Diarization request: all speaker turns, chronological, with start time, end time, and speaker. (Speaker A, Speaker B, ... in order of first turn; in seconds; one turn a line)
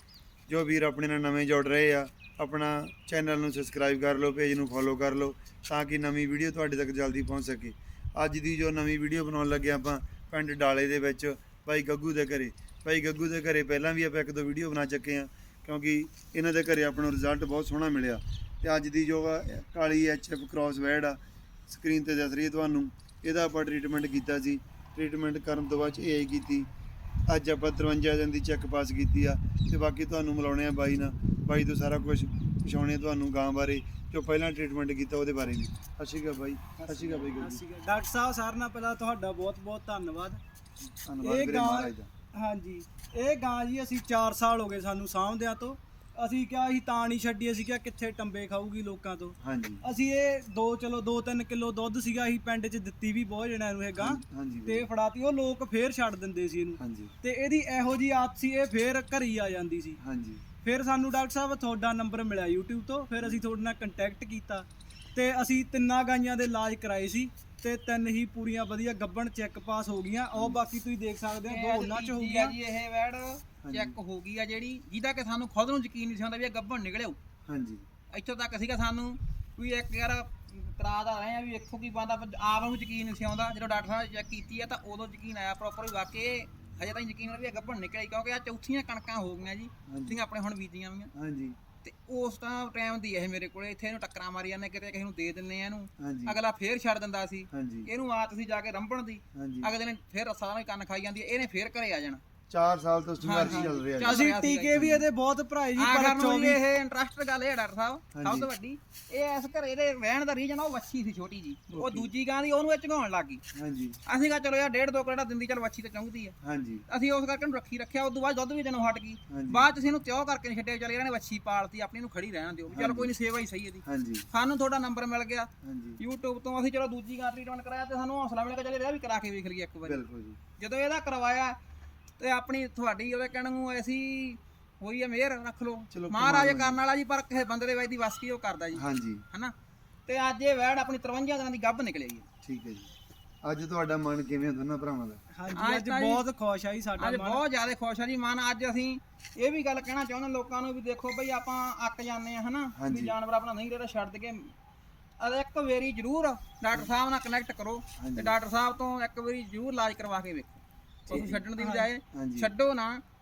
Speaker A: 0.5-26.7
Speaker A: 27.3-37.6
Speaker B: 36.8-40.4
Speaker A: 41.0-42.1
Speaker B: 41.2-60.0
Speaker A: 49.4-49.8
Speaker A: 54.0-54.9
Speaker A: 56.8-57.1
Speaker A: 60.0-60.4
Speaker B: 60.6-72.5
Speaker A: 70.3-70.6
Speaker C: 71.5-77.2
Speaker A: 73.6-73.9
Speaker A: 77.5-77.8
Speaker C: 78.1-91.1
Speaker A: 89.9-90.2
Speaker A: 91.1-91.6
Speaker C: 91.8-102.2
Speaker A: 96.0-96.3
Speaker A: 97.5-97.9
Speaker A: 99.3-99.7
Speaker A: 102.5-104.3
Speaker C: 103.2-105.0
Speaker B: 103.4-106.6
Speaker C: 105.8-113.4
Speaker A: 108.1-108.5
Speaker A: 111.7-112.1
Speaker A: 113.5-114.0
Speaker C: 114.0-116.3
Speaker A: 116.4-116.8
Speaker C: 116.9-130.0
Speaker A: 119.3-119.7
Speaker A: 122.7-123.1
Speaker A: 123.8-124.2
Speaker A: 125.6-126.0
Speaker A: 129.8-130.4
Speaker C: 130.6-131.6
Speaker C: 132.2-139.5
Speaker A: 135.9-136.8
Speaker A: 138.7-139.2
Speaker C: 140.1-142.2
Speaker A: 142.4-142.9
Speaker A: 143.4-145.2
Speaker B: 145.3-147.4
Speaker C: 145.5-146.2
Speaker C: 147.0-154.5
Speaker A: 152.7-153.1
Speaker C: 155.2-163.0
Speaker A: 158.0-158.3
Speaker A: 161.1-161.4
Speaker B: 161.6-161.9
Speaker A: 162.1-162.5